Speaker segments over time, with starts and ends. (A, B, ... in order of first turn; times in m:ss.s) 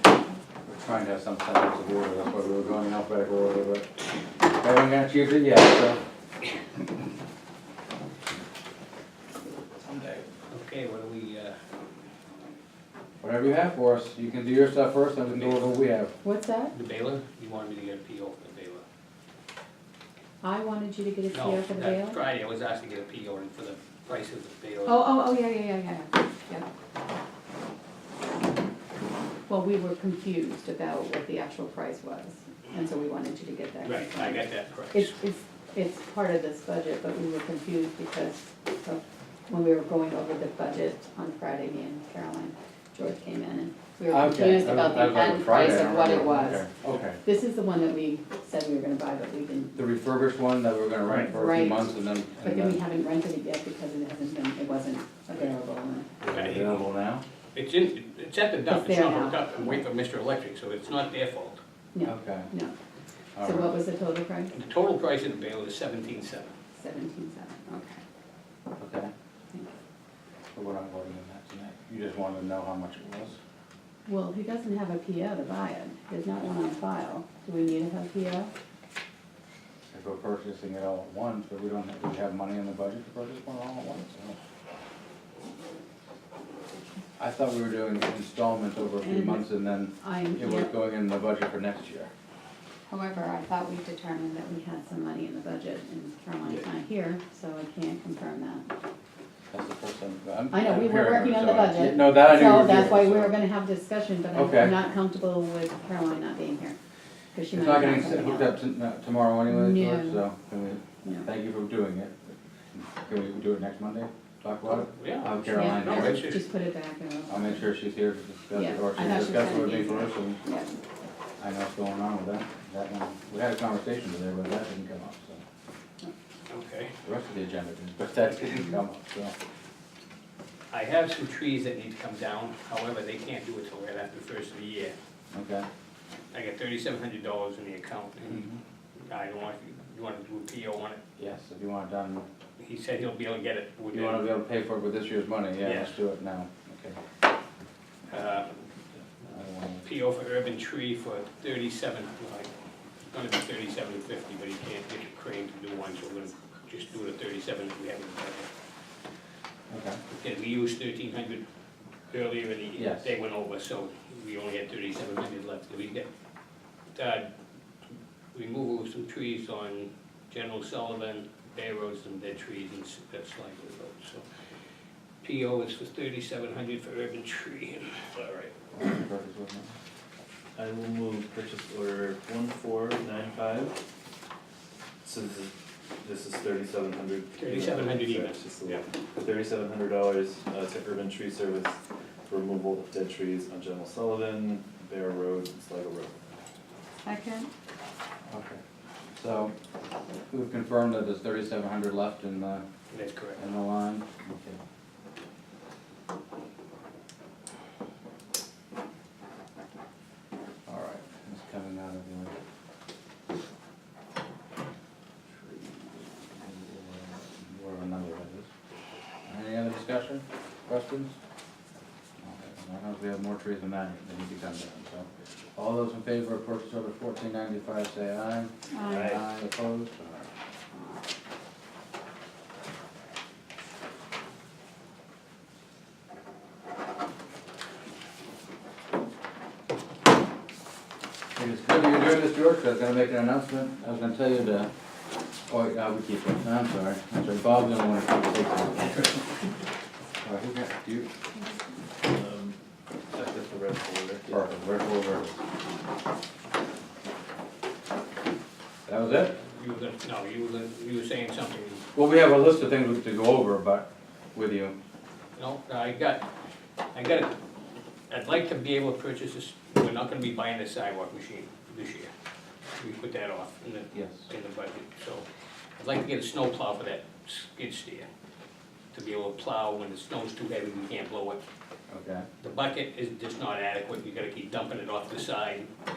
0:00.7-0:03.9 A
0:04.4-0:06.0 A
0:09.8-0:10.2 A
0:10.5-0:11.6 B
0:13.2-0:16.1 A
0:15.3-0:15.8 B
0:16.2-0:16.7 C
0:16.7-0:18.8 B
0:20.4-0:22.2 C
0:21.3-0:25.0 B
0:24.9-0:26.7 C
0:29.5-0:46.7 C
0:33.8-0:35.2 B
0:44.1-0:47.2 A
0:47.2-0:49.8 C
0:49.8-0:52.8 A
0:51.2-0:56.1 C
0:56.2-0:57.2 A
0:56.3-0:56.8 B
0:57.6-1:01.6 B
0:58.7-0:59.8 C
1:01.9-1:02.7 C
1:02.1-1:02.5 A
1:03.4-1:03.8 A
1:03.4-1:04.5 C
1:04.5-1:06.5 B
1:06.8-1:08.0 C
1:08.8-1:09.1 A
1:09.5-1:09.8 C
1:10.5-1:13.4 A
1:14.1-1:18.5 C
1:19.9-1:24.4 A
1:27.2-1:32.1 A
1:29.0-1:29.5 C
1:30.0-1:30.7 C
1:32.9-1:38.7 C
1:39.5-1:43.4 A
1:40.5-1:46.8 C
1:44.3-1:44.8 A
1:47.3-1:48.6 C
1:47.5-1:52.2 A
1:49.5-1:50.3 C
1:51.0-1:51.3 C
1:52.7-1:56.4 A
1:54.7-1:56.4 B
1:55.5-1:57.7 C
1:57.3-2:00.4 A
1:58.5-2:00.7 C
2:01.4-2:05.4 A
2:06.5-2:06.9 B
2:07.0-2:09.3 A
2:10.7-2:15.0 B
2:15.3-2:15.7 A
2:16.3-2:18.4 B
2:18.2-2:18.6 A
2:19.0-2:21.0 B
2:21.2-2:22.2 A
2:22.6-2:24.3 B
2:23.9-2:27.0 A
2:25.6-2:26.0 B
2:28.1-2:28.5 B
2:29.3-2:29.8 A
2:29.8-2:32.5 B
2:33.1-2:38.5 B
2:39.7-2:40.0 A
2:40.1-2:41.4 B
2:42.1-2:46.1 B
2:42.8-2:43.1 A
2:47.0-2:47.3 B
2:48.3-2:54.2 B
2:55.2-2:58.5 B
2:58.7-2:59.8 A
3:00.6-3:03.8 D
3:05.0-3:16.2 D
3:07.4-3:08.8 B
3:17.0-3:17.5 C
3:18.3-3:18.6 A
3:19.2-3:19.5 A
3:20.3-3:22.6 A
3:22.9-3:23.4 B
3:23.4-3:24.6 A
3:30.7-3:32.4 A
3:36.4-3:38.5 A
3:39.3-3:41.2 A
3:42.2-3:50.3 A
3:48.7-3:49.2 C
3:48.9-3:49.2 D
4:01.4-4:04.7 A
4:05.5-4:09.1 A
4:10.2-4:11.1 A
4:12.0-4:12.6 D
4:13.1-4:14.5 D
4:14.3-4:15.4 A
4:18.9-4:19.4 A
4:19.4-4:21.8 B
4:21.9-4:24.8 A
4:25.4-4:26.3 B
4:26.9-4:27.4 B
4:28.1-4:32.1 B
4:32.8-4:35.3 B
4:33.9-4:34.3 A
4:35.8-4:38.1 B
4:38.9-4:41.4 B
4:41.9-4:42.3 A
4:42.4-4:45.7 B